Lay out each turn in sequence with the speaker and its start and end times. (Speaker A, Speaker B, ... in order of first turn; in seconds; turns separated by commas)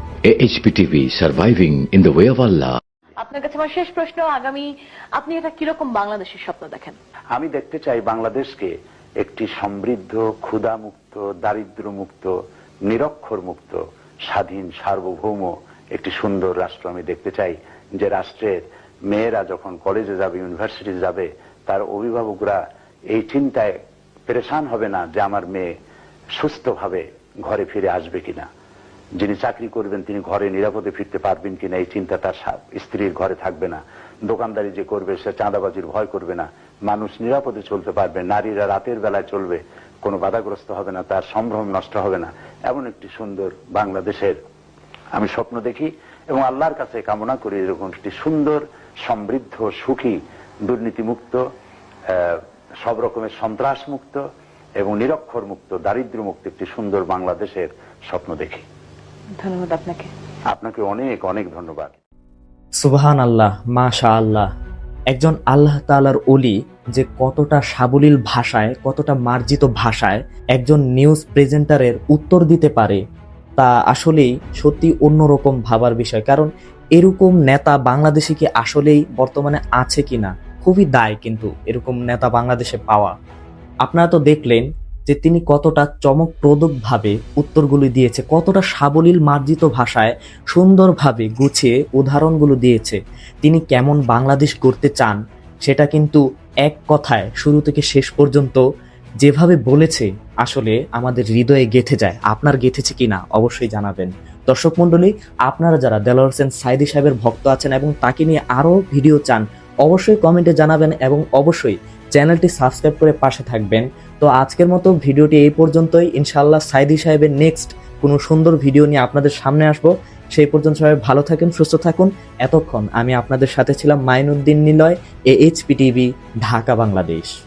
Speaker A: 0.3-2.8, Speaker B: 3.2-7.0, Speaker C: 7.3-12.3, Speaker C: 12.9-22.6, Speaker C: 23.1-23.7, Speaker C: 24.3-25.7, Speaker C: 26.4-28.5, Speaker C: 29.2-44.4, Speaker C: 45.1-51.4, Speaker C: 52.1-54.2, Speaker C: 54.8-58.6, Speaker B: 59.4-60.1, Speaker C: 60.5-62.0, Speaker D: 62.8-64.5, Speaker D: 65.1-73.0, Speaker D: 73.6-83.1, Speaker D: 83.8-98.6, Speaker D: 99.2-127.3